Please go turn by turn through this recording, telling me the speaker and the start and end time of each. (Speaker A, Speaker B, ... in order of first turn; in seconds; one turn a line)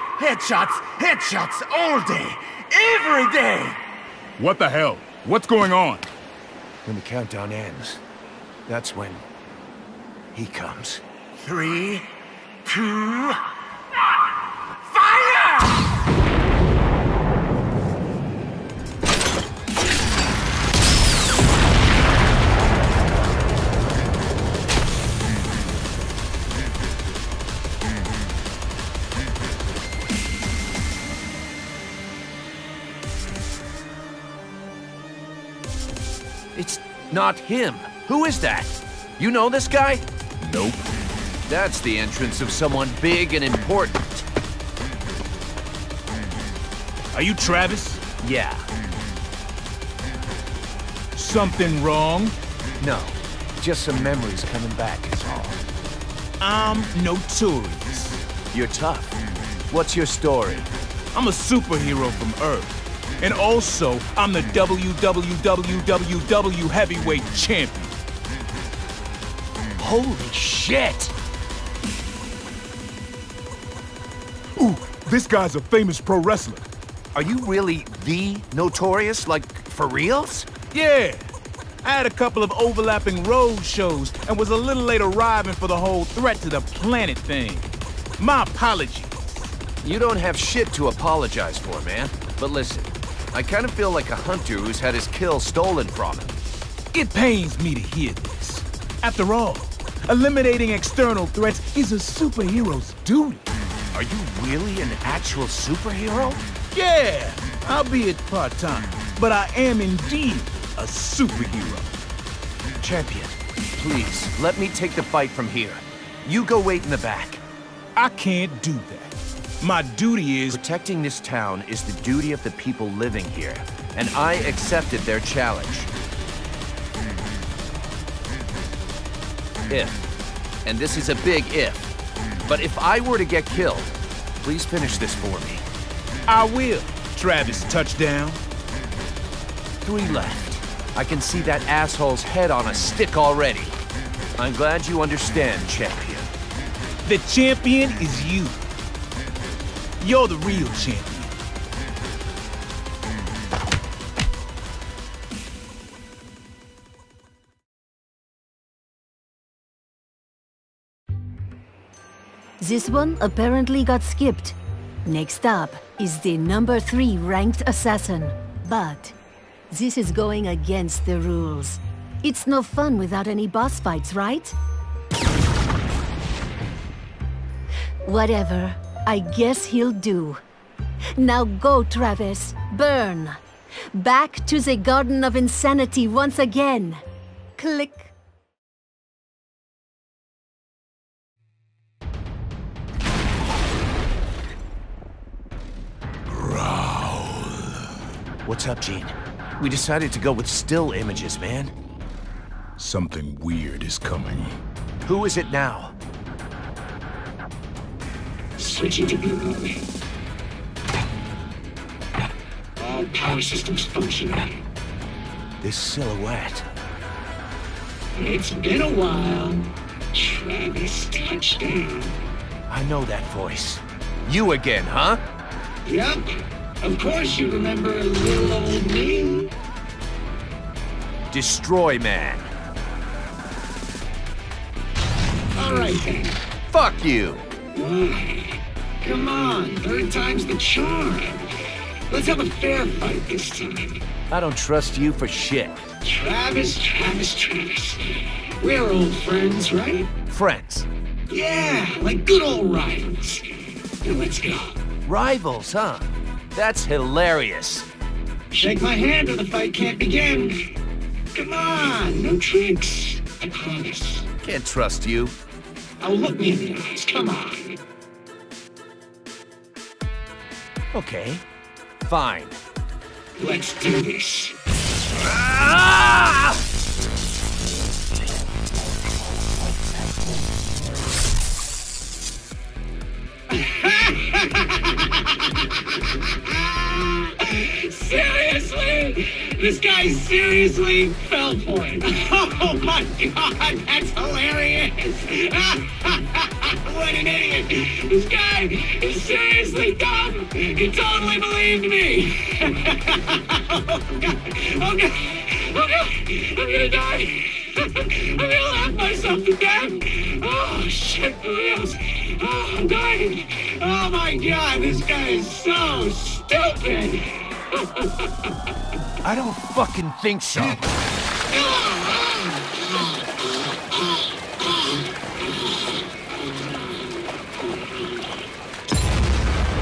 Speaker A: 0.2-3.8
Speaker B: 4.4-6.1
Speaker C: 6.8-8.0
Speaker C: 8.7-9.2
Speaker C: 10.3-12.0
Speaker C: 12.7-13.3
Speaker C: 15.0-15.6
Speaker C: 36.5-40.0
Speaker B: 40.4-40.9
Speaker C: 41.5-44.2
Speaker B: 47.1-48.0
Speaker C: 48.2-48.7
Speaker B: 51.1-52.4
Speaker C: 52.8-55.6
Speaker B: 56.4-58.2
Speaker C: 58.5-59.1
Speaker C: 59.7-60.7
Speaker B: 61.1-68.0
Speaker C: 69.8-71.1
Speaker B: 74.6-76.7
Speaker C: 77.2-80.5
Speaker B: 80.7-81.3
Speaker B: 81.8-89.2
Speaker C: 89.8-96.4
Speaker B: 96.9-103.5
Speaker C: 103.9-106.4
Speaker B: 106.7-111.9
Speaker C: 112.8-117.4
Speaker B: 118.0-120.6
Speaker C: 120.5-125.9
Speaker C: 129.7-130.0
Speaker C: 130.7-131.9
Speaker C: 132.5-133.9
Speaker C: 134.4-135.6
Speaker B: 136.3-138.4
Speaker C: 139.8-143.8
Speaker C: 144.4-146.3
Speaker B: 147.1-148.6
Speaker B: 150.0-151.3
Speaker D: 162.6-169.2
Speaker D: 169.7-174.6
Speaker D: 178.1-180.4
Speaker D: 181.2-183.4
Speaker D: 183.9-187.0
Speaker D: 187.6-188.1
Speaker B: 196.3-197.8
Speaker C: 198.4-201.7
Speaker B: 202.8-204.6
Speaker C: 205.0-205.9
Speaker E: 208.6-209.8
Speaker E: 212.8-214.6
Speaker C: 215.6-216.7
Speaker E: 218.2-222.2
Speaker C: 222.7-225.2
Speaker E: 225.9-229.5
Speaker C: 231.3-232.5
Speaker E: 235.6-236.4
Speaker C: 236.7-237.4
Speaker E: 237.7-241.5
Speaker E: 242.1-244.0
Speaker C: 244.3-245.8
Speaker E: 246.0-250.1
Speaker C: 250.3-250.9
Speaker E: 251.3-254.8
Speaker C: 255.1-257.9
Speaker E: 258.5-260.7
Speaker E: 261.3-264.3
Speaker C: 264.4-265.4
Speaker E: 266.0-267.8
Speaker C: 270.9-271.4
Speaker C: 272.1-272.6
Speaker E: 273.4-274.6
Speaker C: 275.2-276.6
Speaker E: 283.5-318.5
Speaker C: 319.2-320.9
Speaker E: 321.5-325.8